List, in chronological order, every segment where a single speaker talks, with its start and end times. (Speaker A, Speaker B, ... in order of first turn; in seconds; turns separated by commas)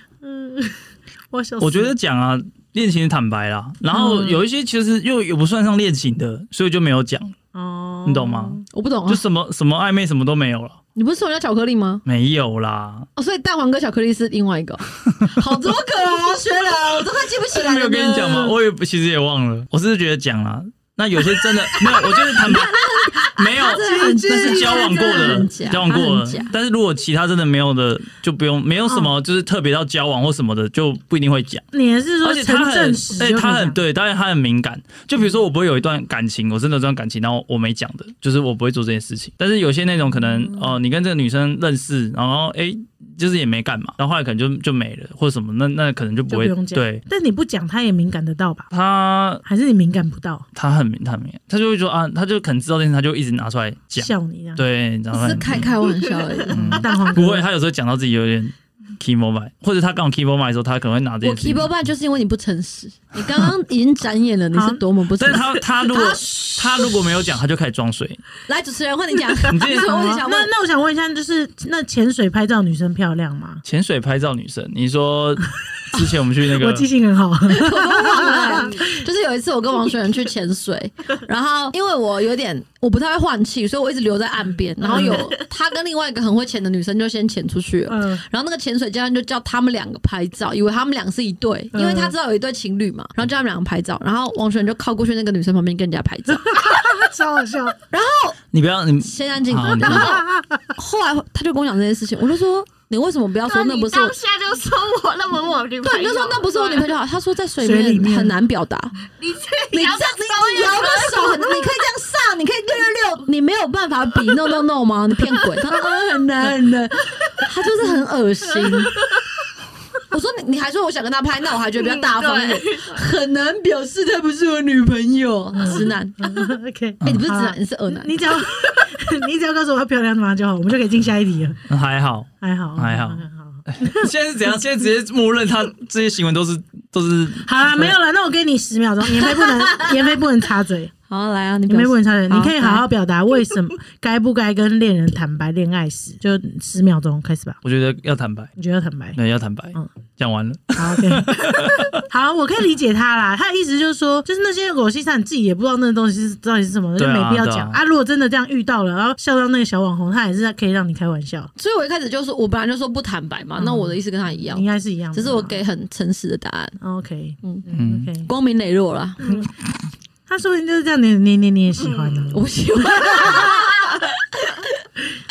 Speaker A: 0.2-1.9, Speaker B: 1.6-7.3, Speaker C: 3.9-4.3, Speaker A: 7.5-8.6, Speaker B: 8.0-10.8, Speaker C: 8.7-9.2, Speaker C: 10.9-12.0, Speaker B: 12.0-13.1, Speaker C: 13.2-18.5, Speaker B: 17.5-31.6, Speaker C: 22.4-26.5, Speaker A: 23.8-25.5, Speaker A: 28.9-29.1, Speaker A: 31.7-33.8, Speaker B: 32.2-47.0, Speaker A: 46.3-48.7, Speaker B: 48.7-49.4, Speaker A: 49.4-50.4, Speaker B: 50.5-55.7, Speaker A: 54.0-54.6, Speaker C: 55.1-56.8, Speaker B: 56.5-61.7, Speaker A: 56.5-57.5, Speaker C: 61.2-66.9, Speaker A: 64.5-64.8, Speaker B: 65.2-68.2, Speaker C: 68.5-70.5, Speaker B: 69.5-70.2, Speaker A: 69.8-73.6, Speaker B: 73.6-76.9, Speaker A: 76.5-78.8, Speaker C: 77.5-96.6, Speaker D: 78.4-78.8, Speaker A: 84.8-85.3, Speaker D: 84.9-85.3, Speaker A: 87.9-88.2, Speaker A: 91.7-92.1, Speaker A: 96.4-97.8, Speaker C: 97.9-98.4, Speaker B: 98.5-100.2, Speaker C: 99.0-104.1, Speaker A: 99.8-100.7, Speaker D: 103.5-106.9, Speaker C: 105.8-109.0, Speaker A: 107.6-108.3, Speaker D: 109.2-111.8, Speaker C: 109.7-119.0, Speaker D: 118.5-119.2, Speaker C: 120.1-126.5, Speaker D: 121.8-123.0, Speaker A: 125.5-131.6, Speaker C: 127.0-128.2, Speaker D: 128.6-128.9, Speaker B: 131.7-138.0, Speaker A: 132.4-134.1, Speaker A: 137.4-140.9, Speaker C: 141.1-142.9, Speaker A: 141.7-147.6, Speaker B: 147.6-148.5, Speaker A: 148.6-149.2, Speaker B: 149.1-152.0, Speaker A: 150.8-161.5, Speaker B: 157.0-157.8, Speaker C: 161.6-166.8, Speaker A: 163.6-165.6, Speaker A: 166.8-168.3, Speaker B: 167.7-168.1, Speaker C: 168.2-169.4, Speaker A: 169.2-169.5, Speaker A: 170.3-172.4, Speaker D: 171.8-172.3, Speaker C: 172.3-174.7, Speaker A: 173.0-173.5, Speaker D: 173.2-173.7